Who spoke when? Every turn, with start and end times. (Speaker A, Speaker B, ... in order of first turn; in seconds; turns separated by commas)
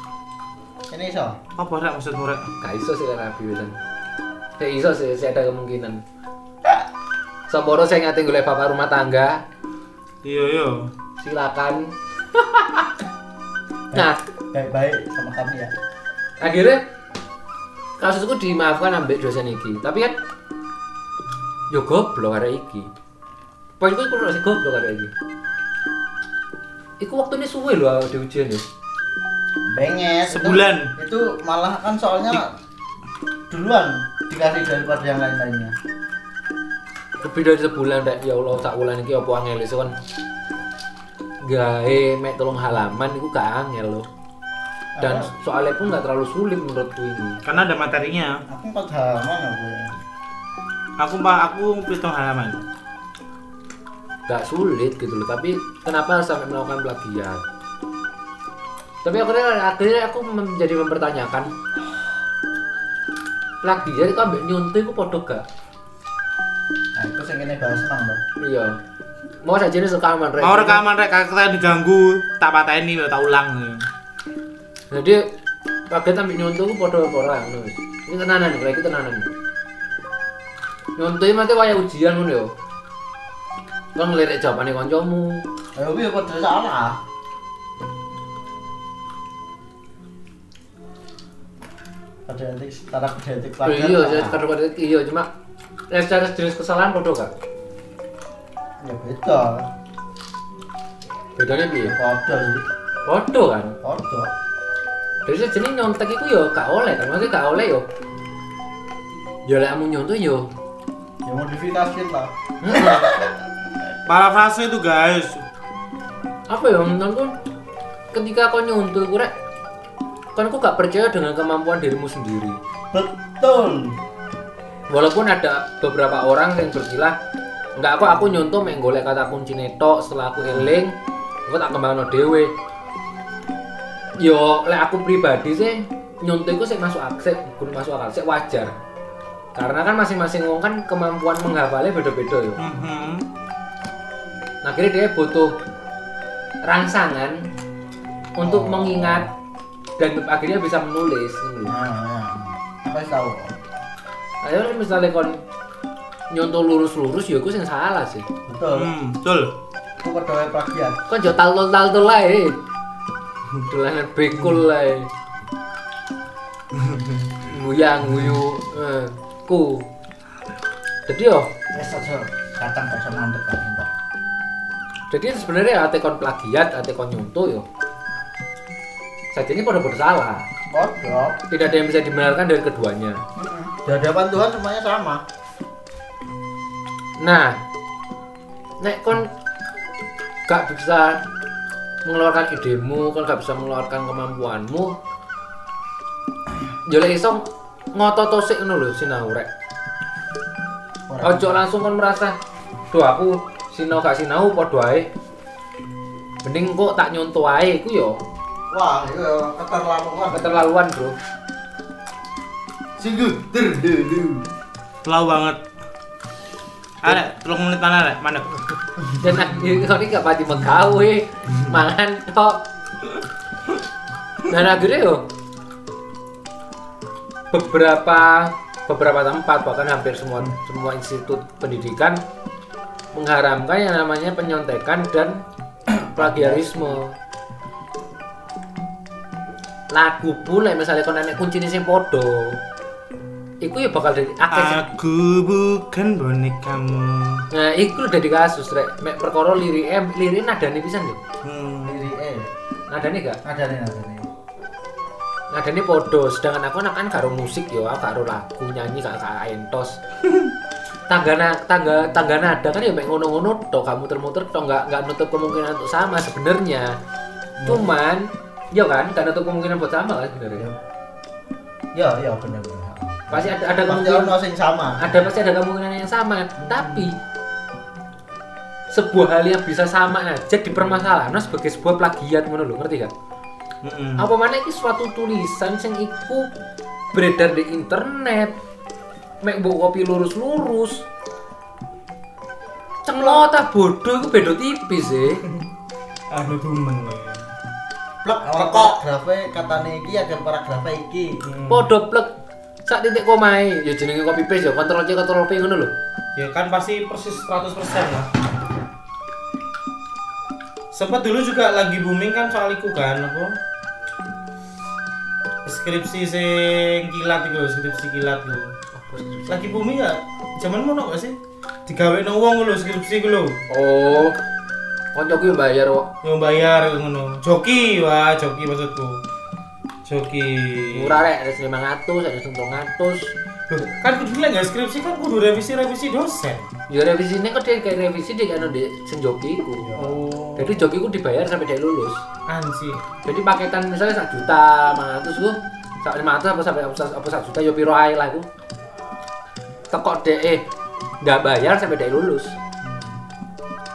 Speaker A: 0.9-1.4, Speaker B: 1.6-2.5, Speaker C: 2.6-3.8, Speaker C: 4.6-6.0, Speaker C: 7.5-9.4, Speaker B: 10.2-10.9, Speaker C: 11.2-12.9, Speaker A: 13.9-15.7, Speaker C: 16.4-16.8, Speaker C: 18.0-20.1, Speaker C: 21.7-22.9, Speaker C: 23.8-25.1, Speaker C: 27.0-28.6, Speaker A: 29.7-32.5, Speaker B: 30.3-30.9, Speaker A: 33.5-35.8, Speaker C: 37.2-40.0, Speaker C: 41.4-44.1, Speaker A: 45.0-45.3, Speaker C: 45.0-47.4, Speaker B: 47.5-48.4, Speaker A: 48.5-50.0, Speaker B: 51.0-52.6, Speaker C: 54.3-57.4, Speaker C: 59.0-61.5, Speaker C: 63.6-65.5, Speaker A: 67.0-68.2, Speaker C: 68.4-68.8, Speaker C: 69.4-70.8, Speaker B: 70.4-73.9, Speaker C: 74.9-75.3, Speaker C: 75.9-79.3, Speaker C: 81.0-82.5, Speaker C: 84.0-85.4, Speaker A: 85.8-87.0, Speaker A: 92.2-94.4, Speaker C: 93.6-95.3, Speaker C: 95.9-97.3, Speaker A: 98.8-99.7, Speaker C: 101.4-102.0, Speaker A: 101.8-102.7, Speaker C: 103.1-103.8, Speaker A: 103.8-104.3, Speaker C: 105.2-107.9, Speaker C: 109.5-110.5, Speaker A: 111.2-113.5, Speaker C: 112.6-113.1, Speaker B: 114.1-115.4, Speaker C: 116.5-117.3, Speaker C: 118.1-119.3, Speaker C: 120.4-122.6, Speaker A: 122.9-124.0, Speaker C: 124.9-127.2, Speaker C: 127.8-130.9, Speaker C: 131.5-132.5, Speaker C: 134.2-138.8, Speaker C: 139.6-142.6, Speaker B: 142.6-143.2, Speaker C: 144.6-145.6, Speaker C: 146.6-147.5, Speaker C: 148.4-149.3, Speaker A: 148.4-149.3, Speaker C: 150.0-151.7, Speaker A: 151.6-153.6, Speaker C: 154.4-155.4, Speaker C: 156.3-158.3, Speaker A: 158.5-158.9, Speaker B: 158.7-159.5, Speaker A: 160.0-161.0, Speaker C: 161.1-162.6, Speaker C: 163.6-165.1, Speaker B: 166.8-167.1, Speaker C: 167.4-169.9, Speaker C: 171.1-171.5, Speaker A: 171.7-173.9, Speaker C: 175.1-177.6, Speaker C: 179.3-180.5, Speaker A: 180.7-181.4, Speaker C: 181.5-183.2, Speaker A: 183.4-185.2, Speaker C: 187.2-187.6, Speaker C: 188.8-189.3, Speaker C: 190.5-191.2, Speaker C: 192.1-194.9, Speaker C: 196.9-199.5, Speaker A: 201.1-201.6, Speaker C: 201.2-202.4, Speaker C: 202.9-205.1, Speaker C: 206.4-208.2, Speaker A: 208.7-210.6, Speaker C: 210.3-211.1, Speaker A: 213.0-214.5, Speaker B: 215.0-215.6, Speaker B: 217.0-218.6, Speaker C: 219.2-222.6, Speaker C: 224.5-225.2, Speaker C: 227.5-232.2, Speaker C: 233.1-235.4, Speaker A: 235.9-237.0, Speaker C: 236.1-237.2, Speaker C: 239.9-242.6, Speaker C: 243.6-244.8, Speaker B: 244.5-247.5, Speaker C: 247.5-251.2, Speaker B: 251.4-252.0, Speaker A: 251.8-252.5, Speaker C: 252.9-253.4, Speaker A: 253.4-254.3, Speaker C: 255.5-260.0, Speaker C: 261.1-267.0, Speaker A: 267.6-267.9, Speaker C: 267.6-270.6, Speaker A: 271.9-275.3, Speaker C: 273.3-274.4, Speaker C: 275.0-277.1, Speaker C: 278.9-283.1, Speaker B: 283.8-284.2, Speaker C: 284.2-286.5, Speaker C: 287.1-288.6, Speaker C: 289.4-291.1, Speaker C: 293.1-295.4, Speaker B: 296.3-297.5, Speaker A: 298.2-301.4, Speaker B: 298.5-299.0, Speaker B: 301.4-301.9, Speaker C: 301.7-302.3, Speaker C: 302.9-305.9, Speaker B: 306.4-308.3, Speaker B: 310.9-313.6, Speaker B: 315.6-318.7, Speaker C: 319.0-319.8, Speaker B: 319.5-323.6, Speaker C: 323.7-324.4, Speaker C: 325.1-326.1, Speaker B: 326.2-329.2, Speaker B: 330.1-331.2, Speaker C: 330.9-333.3, Speaker B: 333.7-336.7, Speaker C: 336.9-340.0, Speaker A: 339.8-340.4, Speaker B: 340.0-340.8, Speaker C: 340.6-342.2, Speaker B: 342.5-343.0, Speaker C: 343.2-348.5, Speaker C: 349.9-350.6, Speaker C: 351.2-352.6, Speaker A: 352.8-353.2